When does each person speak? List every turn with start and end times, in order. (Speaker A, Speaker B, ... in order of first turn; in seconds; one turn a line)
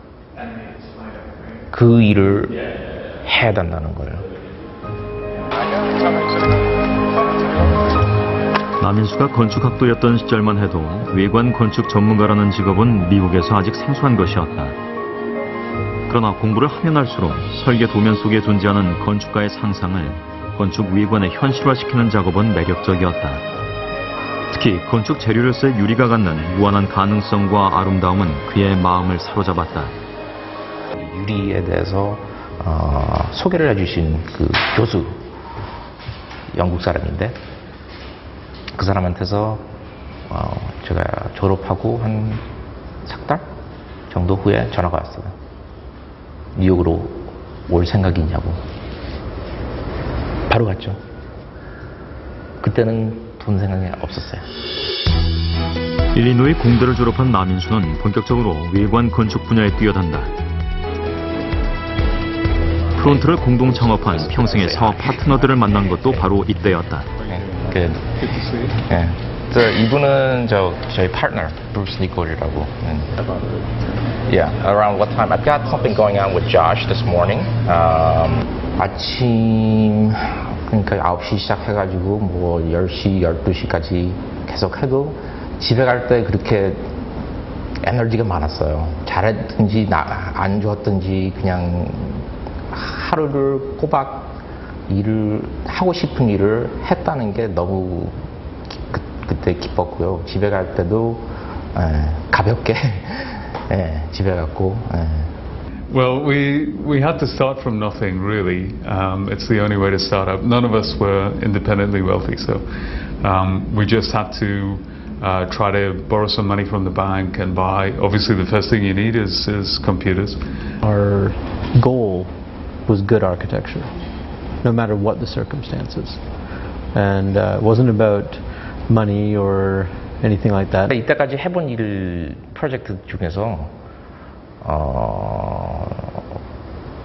Speaker A: 0.3-1.6
Speaker B: 1.7-2.5
Speaker B: 3.2-4.3
Speaker C: 8.8-14.8
Speaker C: 16.1-23.4
Speaker C: 24.5-29.9
Speaker B: 30.9-35.3
Speaker B: 36.5-37.4
Speaker B: 38.8-39.7
Speaker B: 40.3-42.4
Speaker B: 43.0-43.5
Speaker B: 44.1-45.3
Speaker B: 46.6-48.6
Speaker B: 50.5-51.0
Speaker B: 52.6-54.5
Speaker C: 56.1-60.3
Speaker C: 63.0-67.1
Speaker B: 63.0-63.3
Speaker B: 63.9-66.3
Speaker B: 67.2-68.1
Speaker D: 67.3-68.8
Speaker B: 68.9-73.1
Speaker B: 74.3-86.9
Speaker B: 87.8-105.3
Speaker D: 105.9-112.7
Speaker D: 113.2-120.4
Speaker A: 120.8-123.9
Speaker A: 124.6-126.2
Speaker A: 126.9-130.9
Speaker B: 130.9-133.8
Speaker B: 134.6-136.2